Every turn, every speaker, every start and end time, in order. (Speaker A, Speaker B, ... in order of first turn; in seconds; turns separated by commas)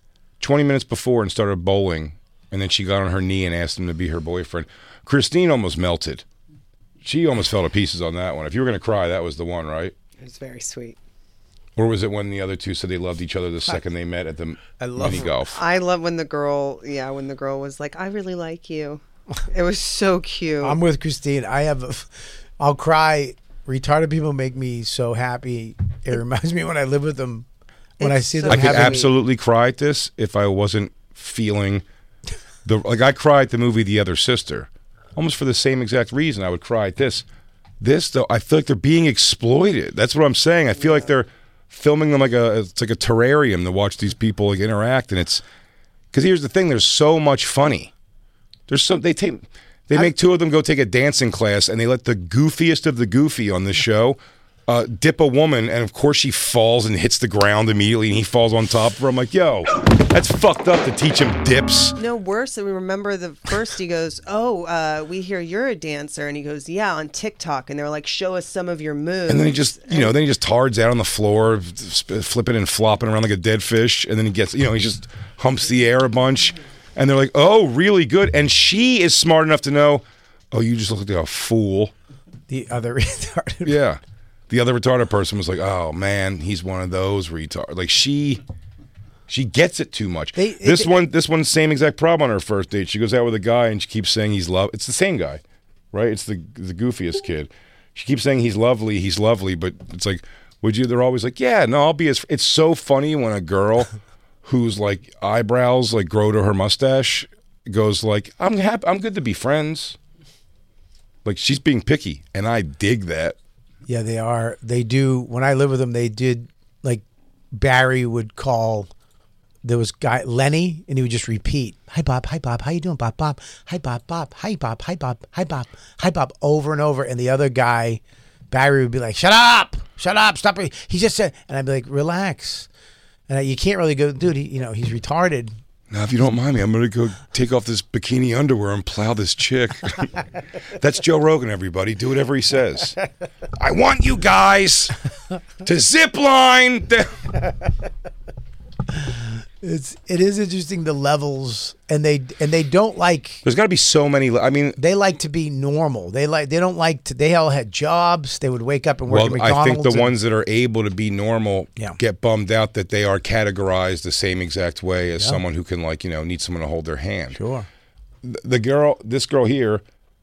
Speaker A: 0.4-6.2, Speaker A: 7.0-9.9, Speaker B: 10.2-11.0, Speaker A: 11.8-15.6, Speaker C: 14.8-15.4, Speaker B: 15.5-20.8, Speaker C: 20.6-27.5, Speaker C: 28.0-29.1, Speaker B: 28.0-29.1, Speaker A: 28.5-31.8, Speaker A: 32.6-37.2, Speaker A: 37.8-45.4, Speaker A: 46.1-47.9, Speaker A: 48.7-62.0, Speaker B: 62.0-70.1, Speaker A: 69.3-81.9, Speaker C: 82.5-83.8, Speaker A: 83.6-88.4, Speaker A: 89.3-103.9, Speaker C: 90.4-91.0, Speaker A: 104.4-110.0, Speaker A: 111.2-113.4, Speaker C: 113.9-118.9, Speaker C: 119.6-132.7, Speaker C: 133.3-135.5, Speaker A: 135.9-140.1, Speaker A: 140.8-143.0, Speaker A: 143.6-145.0, Speaker A: 145.6-147.4, Speaker C: 149.0-153.4, Speaker A: 153.4-154.8, Speaker C: 154.8-160.2, Speaker A: 159.1-167.4, Speaker C: 167.3-167.7, Speaker A: 168.2-169.8